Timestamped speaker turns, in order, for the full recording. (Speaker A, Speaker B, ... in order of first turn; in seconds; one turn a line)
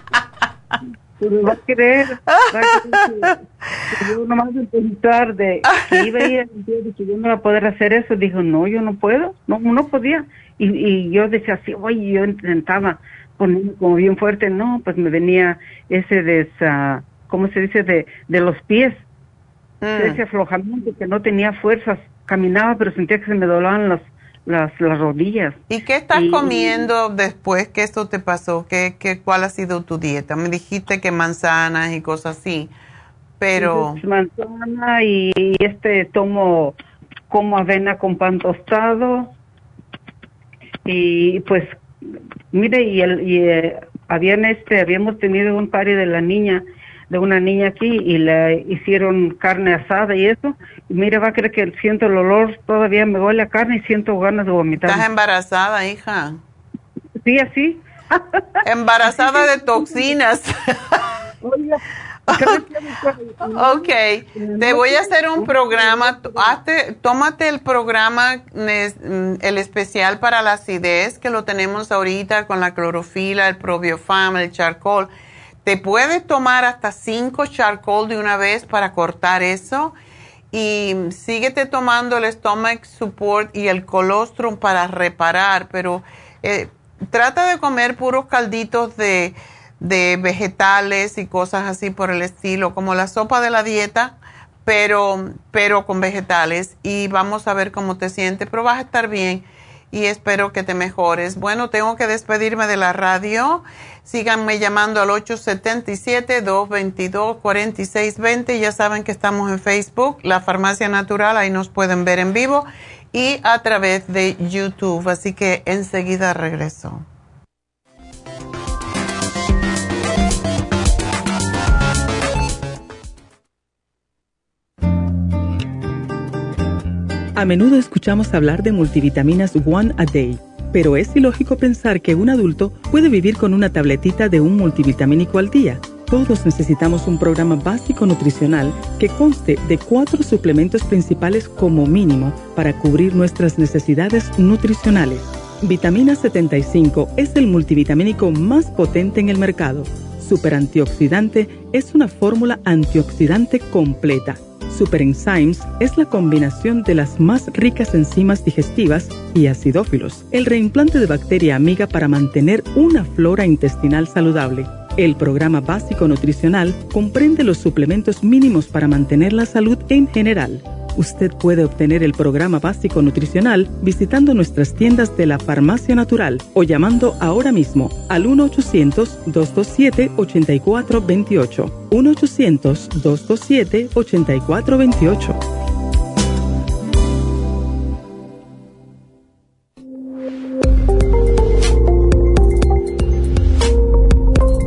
Speaker A: 1.2-3.4
Speaker B: 2.3-3.3
Speaker A: 3.9-19.0
Speaker B: 5.7-6.2
Speaker B: 19.8-20.2
Speaker A: 20.0-25.6
Speaker B: 25.7-32.7
Speaker A: 26.1-26.9
Speaker B: 33.4-34.0
Speaker A: 33.5-36.7
Speaker A: 37.3-39.3
Speaker A: 40.9-41.8
Speaker A: 42.5-55.0
Speaker B: 54.8-56.4
Speaker A: 57.2-58.4
Speaker B: 58.6-61.0
Speaker A: 59.3-60.1
Speaker A: 61.4-66.5
Speaker B: 62.3-62.6
Speaker B: 63.5-75.1
Speaker B: 75.6-79.9
Speaker B: 80.5-117.0
Speaker C: 127.3-185.4